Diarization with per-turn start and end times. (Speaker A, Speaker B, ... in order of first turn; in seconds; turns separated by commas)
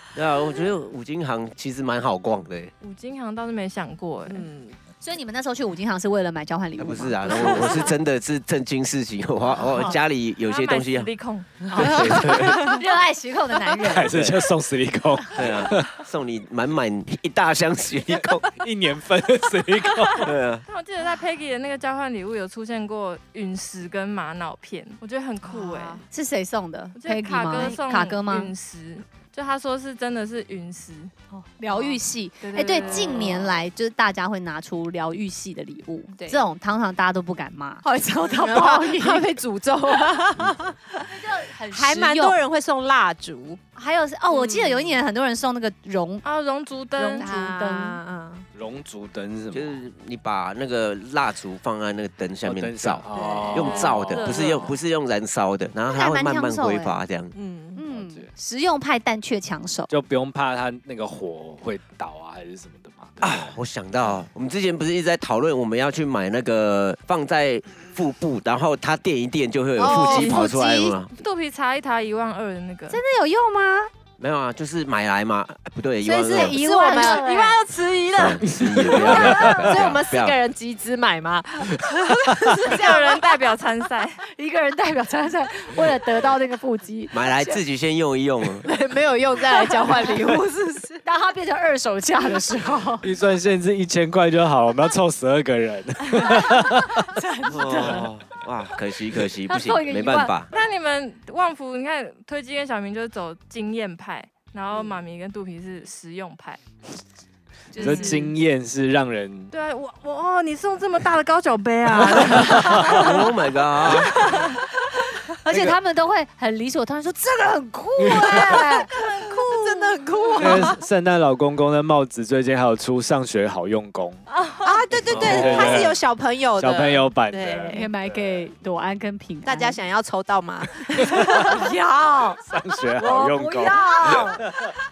Speaker A: 0.1-2.7, Speaker B: 2.8-4.5, Speaker C: 4.3-4.8, Speaker D: 5.0-7.9, Speaker A: 6.8-11.1, Speaker B: 10.5-11.7, Speaker D: 11.7-14.1, Speaker C: 11.7-12.4, Speaker A: 11.7-12.6, Speaker E: 13.8-16.0, Speaker A: 14.1-14.4, Speaker A: 15.3-18.5, Speaker E: 18.5-20.3, Speaker A: 20.2-20.6, Speaker B: 20.7-26.1, Speaker C: 25.5-26.0, Speaker D: 26.1-28.5, Speaker B: 27.0-31.1, Speaker D: 31.3-39.3, Speaker B: 31.7-33.6, Speaker C: 32.6-33.5, Speaker C: 36.2-36.5, Speaker C: 37.8-43.6, Speaker D: 41.0-42.4, Speaker D: 43.8-46.2, Speaker C: 44.3-45.0, Speaker B: 46.2-47.3, Speaker D: 47.0-48.0, Speaker C: 47.1-48.5, Speaker E: 48.5-49.8, Speaker A: 49.5-57.3, Speaker E: 52.5-54.6, Speaker C: 53.1-53.8, Speaker B: 53.6-54.8, Speaker D: 55.9-57.0, Speaker C: 57.3-57.8, Speaker D: 57.8-59.9, Speaker E: 57.9-58.3, Speaker E: 59.9-63.5, Speaker A: 63.2-71.1, Speaker C: 69.8-70.6, Speaker B: 69.8-70.5, Speaker B: 71.1-73.0, Speaker D: 72.9-73.9, Speaker A: 74.2-76.6, Speaker C: 76.0-83.4, Speaker D: 76.2-77.6, Speaker A: 78.1-80.4, Speaker E: 78.5-79.8, Speaker D: 79.1-79.6, Speaker B: 82.6-84.2, Speaker D: 84.3-87.6, Speaker A: 87.1-88.7, Speaker C: 88.6-91.0, Speaker D: 91.0-93.0, Speaker E: 93.0-97.1, Speaker D: 97.0-98.1, Speaker A: 97.5-100.5, Speaker D: 99.5-100.3, Speaker B: 100.5-106.6, Speaker D: 107.7-108.3, Speaker E: 107.8-109.5, Speaker B: 107.8-108.3, Speaker B: 109.5-113.3, Speaker E: 112.2-113.0, Speaker A: 112.8-114.3, Speaker B: 113.9-114.6, Speaker D: 115.4-120.7, Speaker C: 118.2-120.8, Speaker B: 118.9-119.6, Speaker E: 120.4-124.2, Speaker C: 124.6-127.9, Speaker E: 125.0-126.0, Speaker A: 125.1-125.8, Speaker E: 126.6-128.2, Speaker D: 127.7-129.8, Speaker C: 129.4-131.7, Speaker E: 131.2-131.6, Speaker D: 131.3-132.4, Speaker E: 132.4-134.7, Speaker D: 133.0-134.4